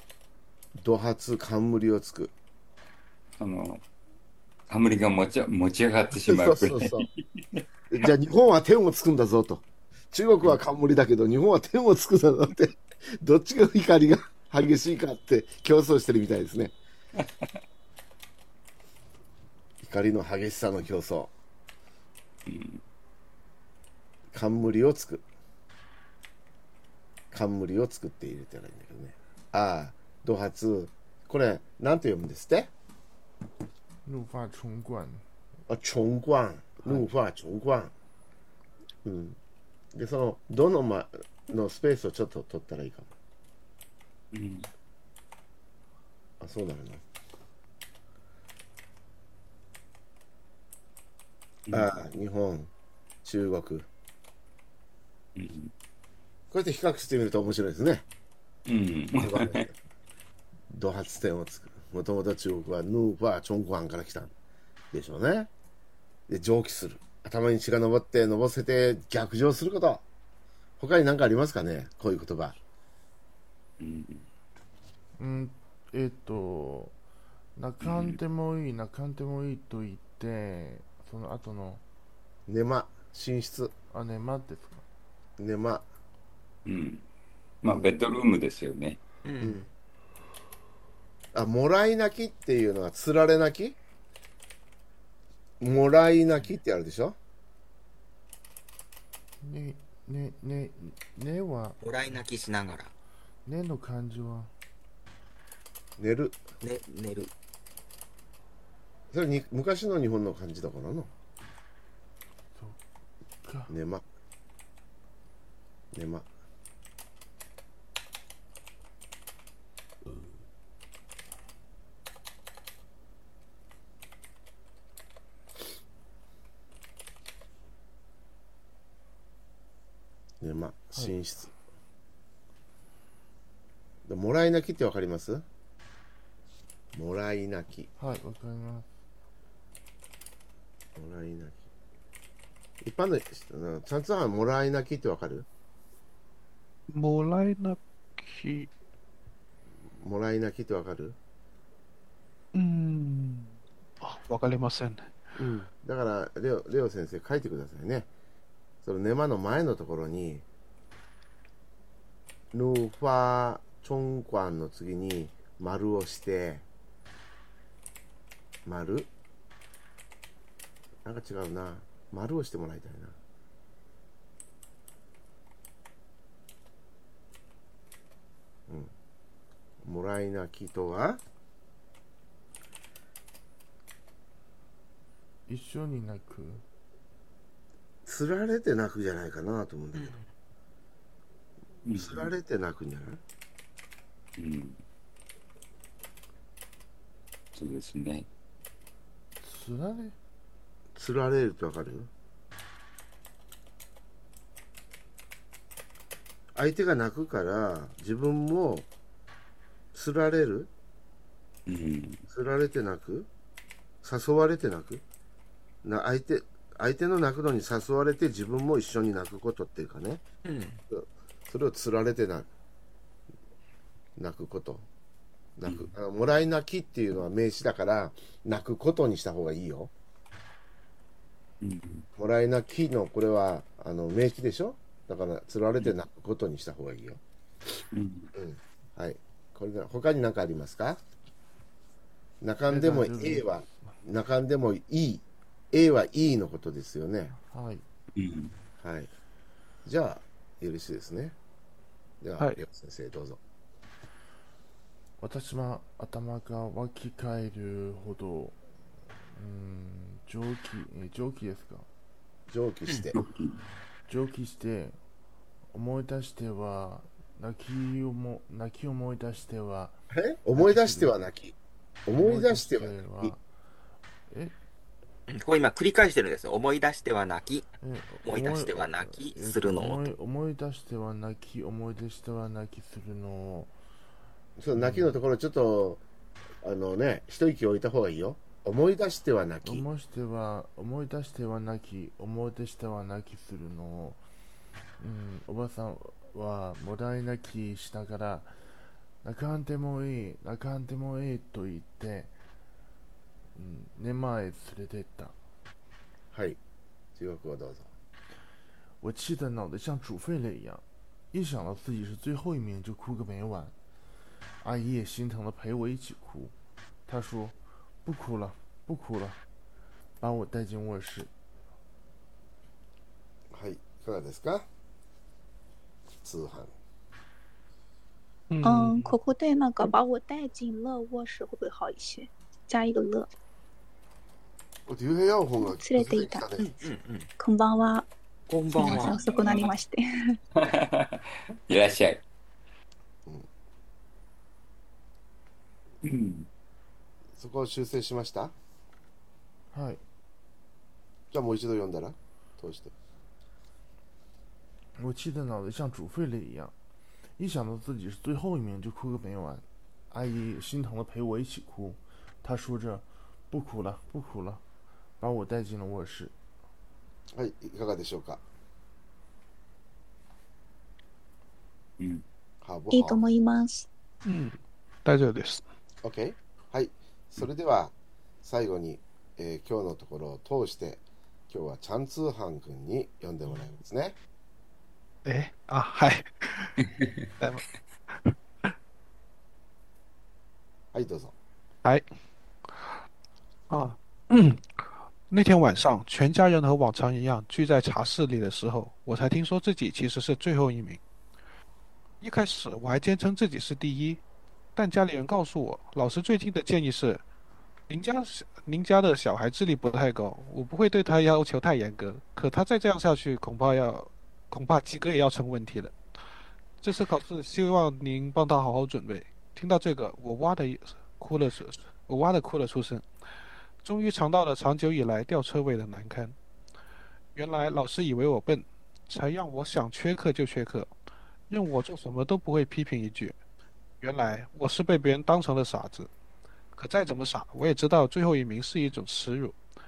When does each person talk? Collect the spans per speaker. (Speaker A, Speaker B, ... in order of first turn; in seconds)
Speaker A: 0.8-2.3, 6.1-7.1, 7.9-16.8, 19.8-21.3, 24.3-25.3, 27.3-32.7, 35.7-37.9, 39.0-39.4, 39.9-43.1, 46.4-47.0, 51.7-52.7, 53.2-53.9, 56.5-58.0, 59.2-59.7, 60.7-64.3, 64.9-65.5, 66.3-70.0, 70.8-72.6, 82.5-83.7, 85.4-85.9, 87.7-88.0, 89.4-89.7, 91.3-93.8, 95.6-97.2, 106.0-106.4, 109.1-111.1, 113.7-114.0, 115.9-116.3, 130.4-131.5, 134.1-135.5, 136.9-137.9, 141.0-141.7, 142.8-145.5, 149.9-151.2, 155.4-158.1, 158.8-160.4, 162.5-166.7, 168.7-169.1, 171.1-173.2, 178.7-178.9, 179.8-181.2, 188.1-190.2, 191.9-193.2, 200.9-202.1, 206.6-208.9, 209.9-210.7, 212.3-213.3, 214.0-215.0, 215.8-220.2, 220.9-222.5, 224.2-224.9, 225.6-229.9, 232.2-237.2, 238.3-241.0, 242.4-247.3, 248.8-249.1, 249.8-251.4, 252.2-253.4, 262.5-263.2, 270.1-273.3, 284.6-286.0, 286.6-289.9, 306.3-306.6, 307.2-307.9, 323.5-324.7, 326.2-326.7, 334.9-336.8, 347.4-348.5, 351.3-352.9, 367.3-368.4, 372.6-373.2, 376.0-384.2, 390.9-391.4
Speaker B: 3.4-3.8, 4.7-7.6, 22.5-22.8, 44.3-44.7, 55.4-55.7, 58.7-59.7, 73.8-74.3, 77.8-78.2, 86.7-87.0, 87.6-89.0, 191.9-192.3, 194.4-194.8, 197.6-198.3, 211.7-212.2, 231.6-232.1, 237.9-238.3, 248.2-248.6, 263.1-263.6, 340.6-342.2, 346.0-346.5, 372.0-372.2
Speaker C: 34.1-35.2, 75.2-77.0, 77.6-81.8, 83.9-84.8, 99.4-101.8, 103.5-104.5, 113.4-113.7, 138.0-138.9, 185.5-186.6, 199.4-200.2, 242.7-243.5, 247.4-247.8, 255.2-258.6, 259.3-261.9, 264.1-265.0, 265.7-270.0, 270.5-271.1, 272.1-273.4, 274.3-274.6, 277.8-283.7, 284.8-285.2, 289.6-294.2, 295.0-298.5, 299.2-302.3, 303.6-305.4, 309.0-313.8, 314.6-316.6, 317.1-319.4, 320.2-321.3, 349.7-350.0, 355.0-356.7, 357.4-364.6, 365.2-366.3
Speaker D: 89.2-89.6, 101.8-102.9, 106.6-107.3, 189.9-190.2, 220.4-220.8, 275.3-277.7, 278.2-280.1, 336.6-337.3, 338.5-339.8
Speaker E: 146.9-148.7, 152.5-155.2, 328.5-329.2, 374.2-375.6, 385.2-386.8, 387.4-388.4, 392.7-393.0, 393.7-401.0, 402.2-404.2, 404.8-407.2, 407.9-416.0, 416.8-423.1, 423.8-426.4, 427.4-430.9, 431.5-433.4, 434.0-436.1, 436.7-439.6
Speaker F: 328.6-333.3, 335.6-336.5, 337.4-338.1, 338.7-340.4, 372.9-373.9